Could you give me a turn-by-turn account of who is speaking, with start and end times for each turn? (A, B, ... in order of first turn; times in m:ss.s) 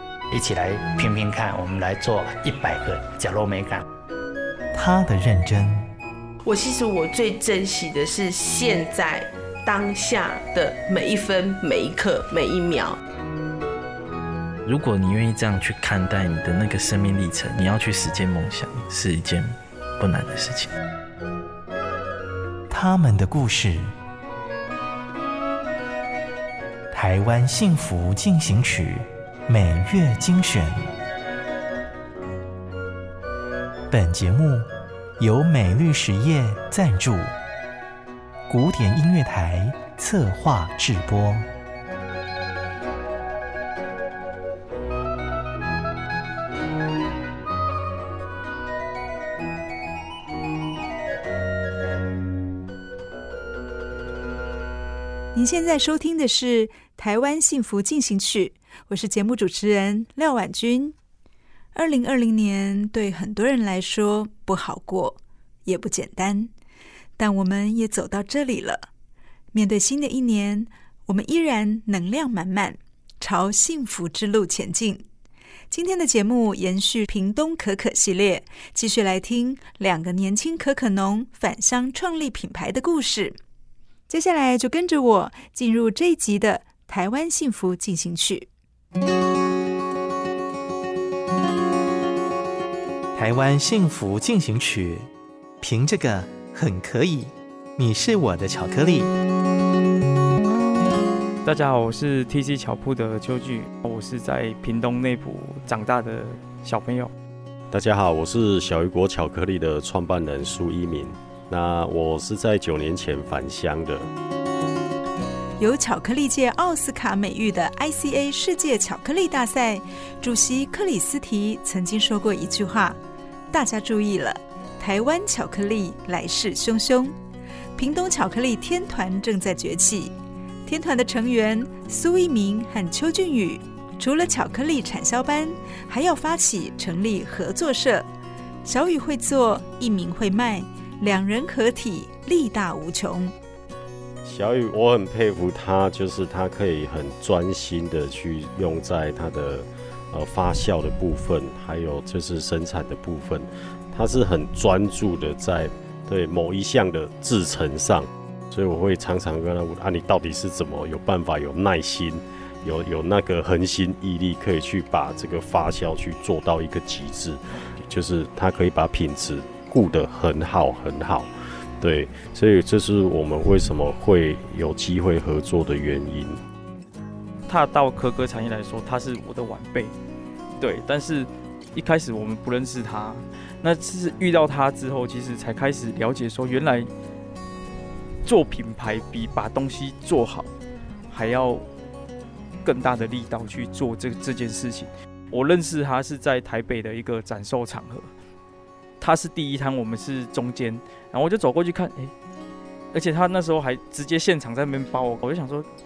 0:00.3-0:03.8 A
0:04.7-0:05.9 B
0:06.5-0:13.0 C
0:14.6-0:20.7 D
0:22.7-0:23.9 B
0:26.9-0:30.8 B
0:33.9-0:34.7 B
0:35.2-0:37.3 B
0:38.5-0:41.5 B
0:55.3-1:01.0 E
1:01.7-1:06.5 E
1:07.2-1:08.9 E
1:09.5-1:15.0 E
1:15.7-1:23.4 E
1:24.1-1:28.5 E
1:33.2-1:35.1 B
1:35.6-1:39.1 B
1:41.4-1:47.1 F
1:47.7-1:54.1 G
1:55.6-2:03.0 E
2:03.5-2:07.1 E
2:07.8-2:18.1 E
2:18.6-2:23.3 E
2:24.2-2:56.4 G
2:57.5-2:59.9 F
3:00.6-3:06.9 F
3:08.2-3:10.5 F
3:11.1-3:11.7 F
3:12.6-3:18.1 F
3:19.0-3:22.1 F
3:22.9-3:25.7 F